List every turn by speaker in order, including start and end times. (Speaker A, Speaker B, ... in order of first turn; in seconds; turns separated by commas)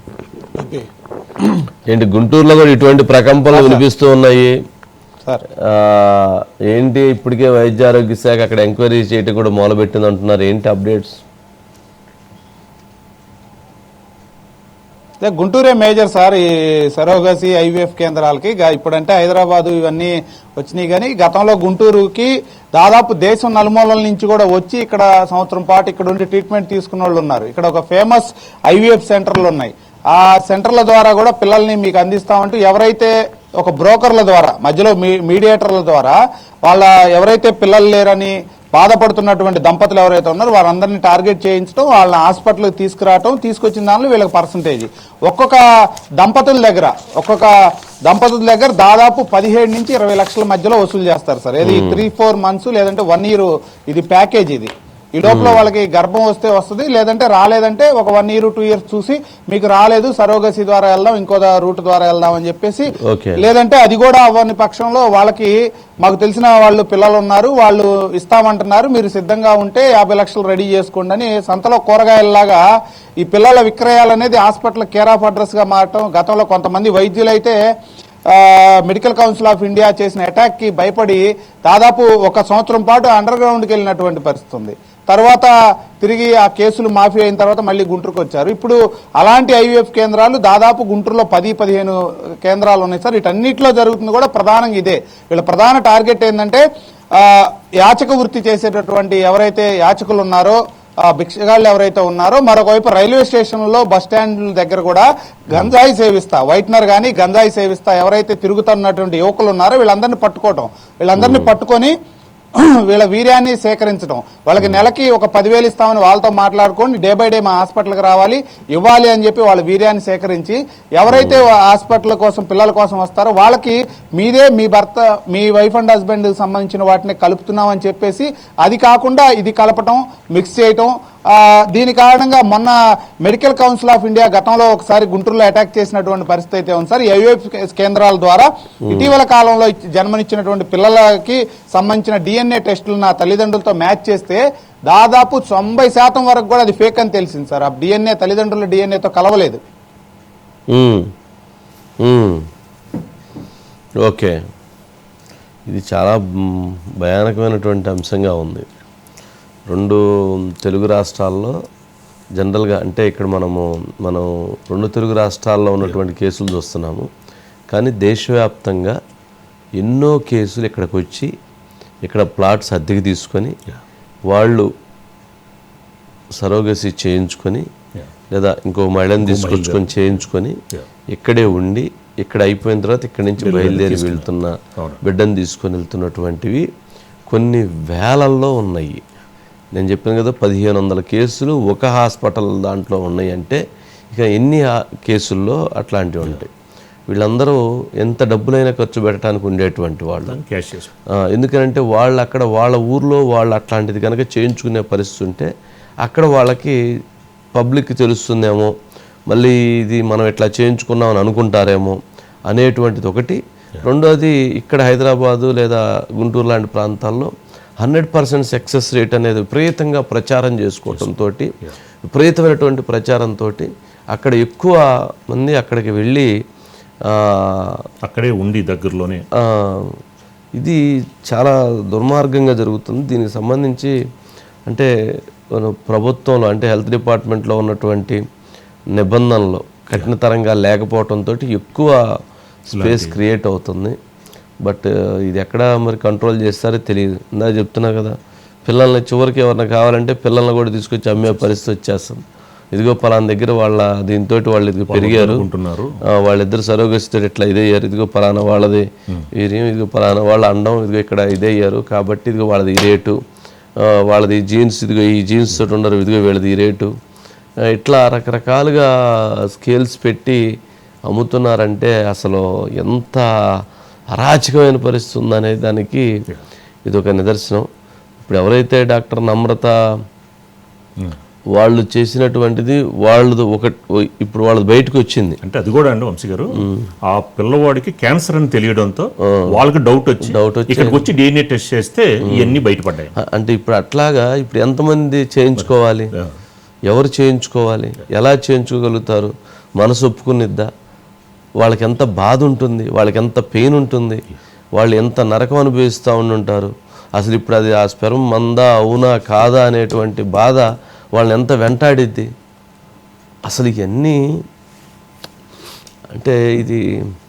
Speaker A: 1.9-4.5, Speaker B: 3.5-3.8, Speaker A: 5.6-11.2, Speaker B: 15.2-45.6, Speaker B: 46.2-47.5, Speaker B: 48.0-72.6, Speaker A: 51.6-52.0, Speaker A: 55.2-55.6, Speaker A: 63.0-63.4, Speaker B: 73.2-77.6, Speaker B: 78.3-96.6, Speaker B: 97.1-111.9, Speaker A: 111.2-111.5, Speaker B: 112.5-149.6, Speaker A: 121.1-121.4, Speaker A: 150.7-151.1, Speaker A: 152.0-152.4, Speaker A: 154.0-154.4, Speaker A: 155.7-158.6, Speaker A: 159.7-161.5, Speaker A: 162.4-167.1, Speaker A: 167.7-168.9, Speaker A: 169.8-171.3, Speaker A: 172.0-173.5, Speaker A: 174.3-174.7, Speaker A: 176.4-177.7, Speaker A: 178.3-180.6, Speaker C: 179.2-180.8, Speaker A: 181.1-186.6, Speaker C: 183.4-185.0, Speaker A: 187.3-189.0, Speaker A: 189.7-193.6, Speaker A: 194.1-196.5, Speaker A: 197.1-200.4, Speaker C: 200.2-200.9, Speaker A: 201.3-205.5, Speaker A: 206.0-206.8, Speaker A: 207.5-208.7, Speaker A: 209.3-212.0, Speaker A: 212.5-221.5, Speaker A: 222.1-226.3, Speaker A: 227.1-227.8, Speaker C: 228.0-229.2, Speaker A: 229.4-230.0, Speaker A: 231.3-233.9, Speaker A: 235.5-238.2, Speaker A: 238.9-242.0, Speaker A: 242.7-243.9, Speaker C: 242.7-243.2, Speaker A: 244.6-248.1, Speaker A: 248.7-252.2, Speaker A: 252.7-255.5, Speaker C: 254.9-256.0, Speaker A: 256.1-263.2, Speaker A: 264.1-266.9, Speaker A: 267.7-268.9, Speaker A: 269.5-270.4, Speaker A: 271.1-273.2, Speaker A: 274.2-276.1, Speaker A: 276.9-277.7, Speaker A: 278.2-279.7, Speaker A: 281.6-285.4, Speaker C: 285.4-293.1, Speaker A: 290.2-291.1, Speaker A: 292.3-292.6, Speaker A: 293.2-296.1, Speaker C: 295.6-296.3, Speaker A: 296.9-300.7, Speaker A: 301.6-304.2, Speaker A: 304.8-312.3, Speaker A: 313.5-314.2, Speaker A: 316.1-316.8